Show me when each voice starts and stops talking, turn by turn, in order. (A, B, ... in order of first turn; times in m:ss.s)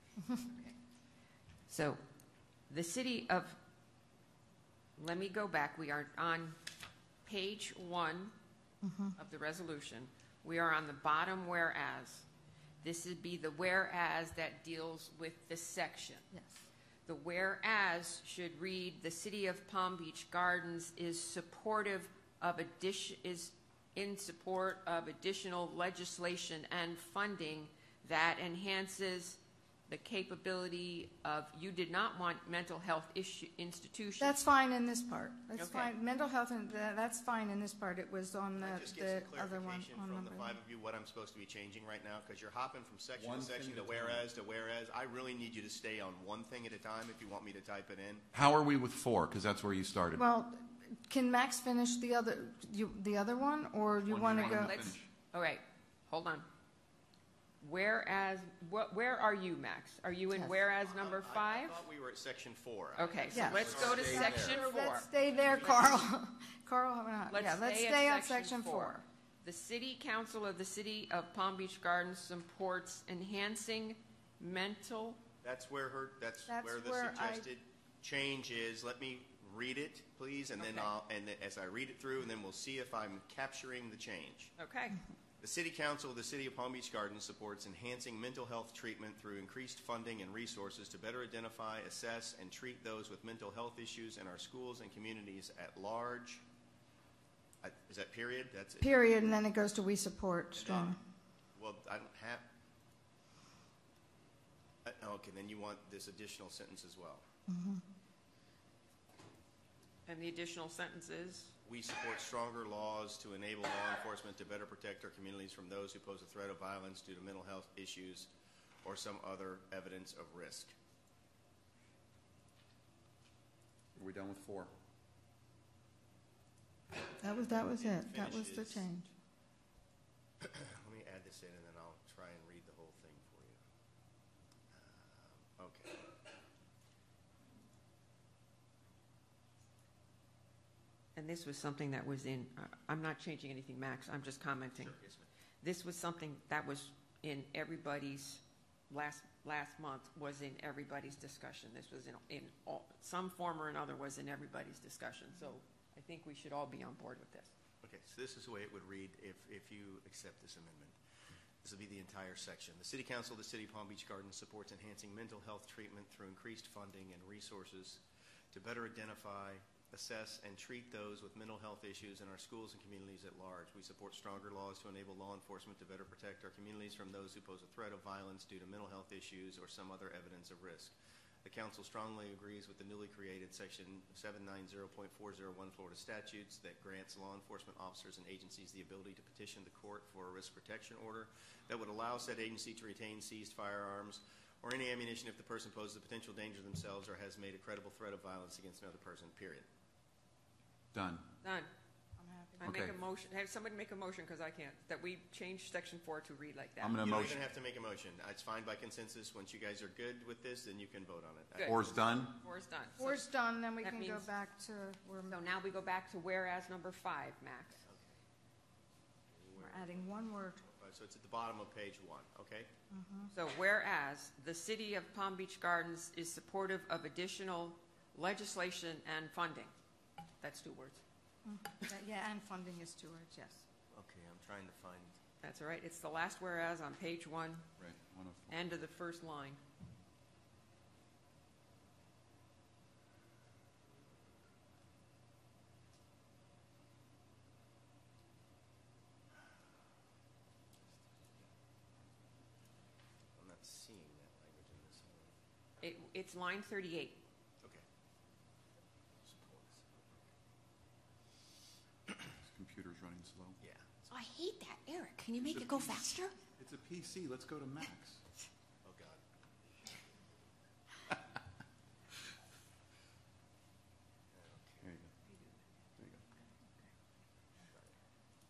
0:01.7-0:02.0 A
0:02.7-0:03.6 A
0:05.0-0:06.6 A
0:07.2-0:08.3 A
0:08.8-0:09.2 B
0:09.2-0:12.2 A
0:12.8-0:16.2 A
0:16.3-0:16.6 B
0:17.0-0:34.4 A
0:34.2-0:40.6 B
0:35.5-0:35.9 A
0:38.6-0:48.3 C
0:43.2-0:44.3 D
0:48.3-0:50.2 D
0:50.2-0:54.9 B
0:54.1-0:55.0 D
0:54.3-0:56.5 A
0:57.6-1:01.8 A
1:00.8-1:04.5 C
1:03.0-1:05.1 A
1:03.3-1:09.0 B
1:03.6-1:04.6 D
1:05.2-1:06.1 C
1:07.3-1:15.2 A
1:15.4-1:24.5 C
1:16.5-1:17.5 B
1:20.6-1:20.9 A
1:24.6-1:25.0 A
1:25.4-1:36.4 C
1:37.6-1:38.9 C
1:38.8-1:41.0 B
1:40.5-1:41.0 C
1:41.5-1:42.4 C
1:44.8-1:47.2 C
1:47.5-1:47.8 B
1:50.0-1:51.5 A
1:51.6-1:58.3 C
1:58.8-2:00.7 C
2:04.0-2:04.7 D
2:07.2-2:09.1 B
2:07.2-2:08.9 C
2:10.4-2:13.6 C
2:14.7-2:16.1 C
2:21.2-2:25.0 A
2:24.7-2:25.3 C
2:25.6-2:37.5 A
2:37.8-2:41.0 C
2:41.6-3:19.6 C
3:20.9-3:21.2 D
3:21.4-3:21.7 A
3:22.2-3:22.8 B
3:22.6-3:27.0 A
3:22.6-3:22.9 D
3:26.8-3:27.4 D
3:27.0-3:32.0 C
3:31.5-3:31.8 A
3:31.7-3:32.4 D
3:32.3-3:33.3 A
3:33.0-3:35.4 B
3:33.8-3:34.3 A
3:35.3-3:37.8 A
3:37.8-3:38.2 C
3:39.3-3:42.7 C
3:39.6-3:40.6 B
3:42.9-3:43.3 B
3:43.3-3:49.7 A
3:50.4-3:51.0 A
3:51.4-3:53.6 B
3:53.9-3:55.2 C
3:55.4-3:57.6 A
3:57.8-3:58.5 D
3:58.5-3:59.6 A
4:13.4-4:15.4 C
4:15.8-4:17.2 A
4:19.2-4:20.3 C
4:22.4-4:23.6 D
4:23.6-4:24.0 C
4:24.1-4:26.4 A
4:25.4-4:26.0 D
4:26.6-4:28.2 D
4:28.8-4:29.2 C
4:34.3-4:35.0 C
4:34.8-4:35.1 D
4:36.0-4:36.2 D